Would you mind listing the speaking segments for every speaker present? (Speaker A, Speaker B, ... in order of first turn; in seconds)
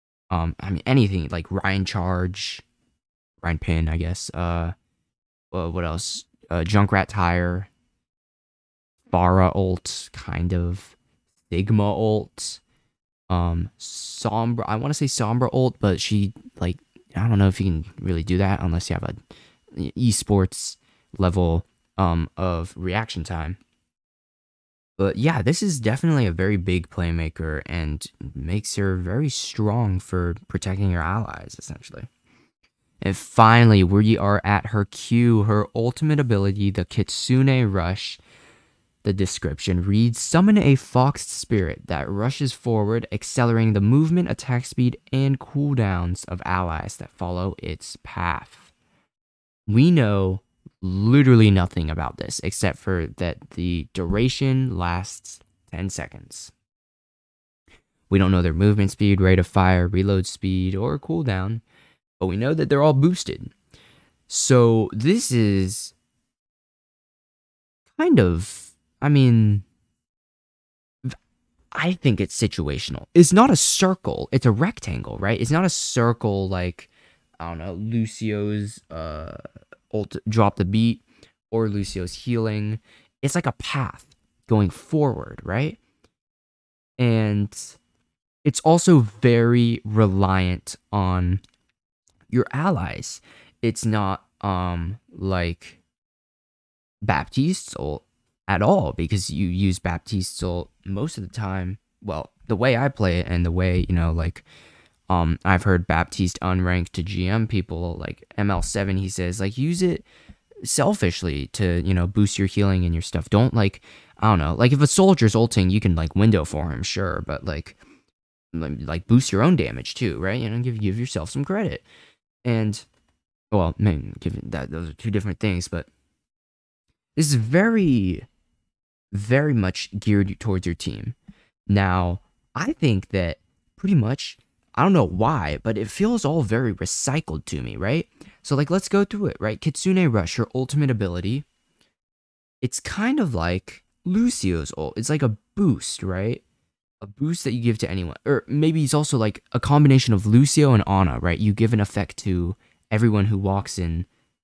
Speaker A: 0.3-2.6, 3.4-4.7, 5.5-7.7, 9.1-10.9, 11.5-12.6, 13.3-23.6, 25.0-32.1, 33.0-38.2, 39.0-48.7, 49.7-56.5, 58.1-61.6, 62.2-63.5, 64.3-65.9, 68.0-69.6, 71.7-85.8, 87.0-87.8, 88.4-91.4, 92.3-95.8, 97.0-104.4, 105.1-110.0, 110.6-117.8, 118.5-121.9, 122.4-122.8, 123.5-125.9, 127.2-128.2, 129.1-131.2, 131.7-141.4, 142.6-146.4, 147.0-154.1